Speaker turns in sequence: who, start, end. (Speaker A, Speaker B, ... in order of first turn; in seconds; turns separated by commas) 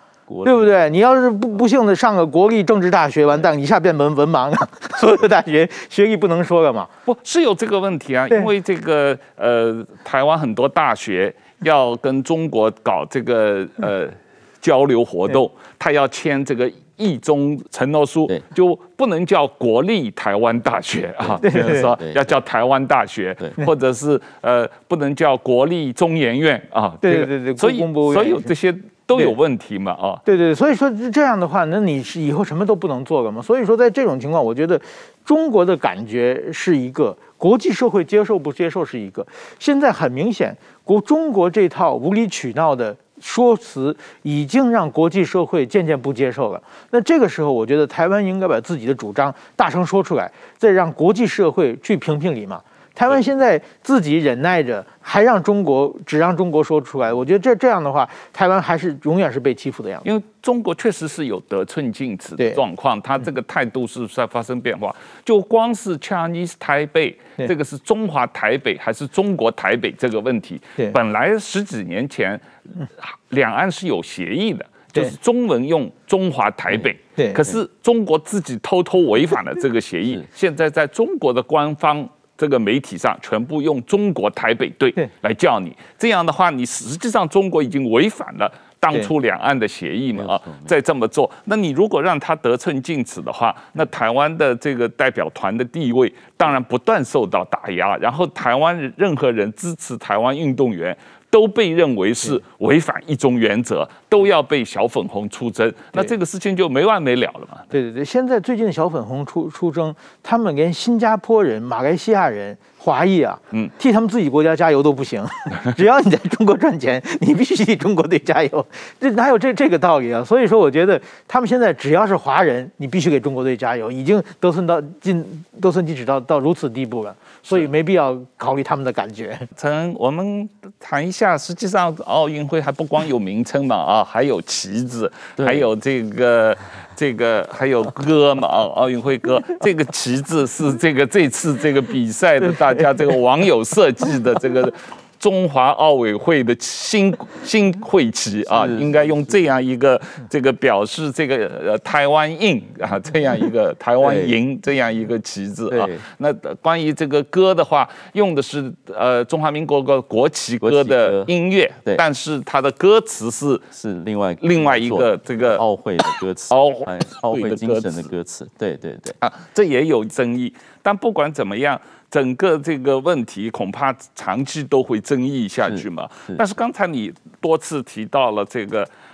Speaker A: 0.4-6.9, Speaker B: 7.1-30.2, Speaker C: 21.2-22.3, Speaker A: 21.4-21.8, Speaker A: 27.0-28.5, Speaker A: 30.3-60.0, Speaker B: 60.0-72.4, Speaker B: 73.0-107.7, Speaker C: 90.1-90.7, Speaker A: 107.7-129.5, Speaker B: 129.6-163.7, Speaker C: 135.4-135.7, Speaker C: 148.5-148.9, Speaker C: 154.0-154.4, Speaker C: 155.7-156.0, Speaker C: 160.6-161.3, Speaker C: 163.7-169.2, Speaker B: 164.4-165.6, Speaker B: 166.5-168.1, Speaker B: 169.2-178.9, Speaker C: 175.6-176.4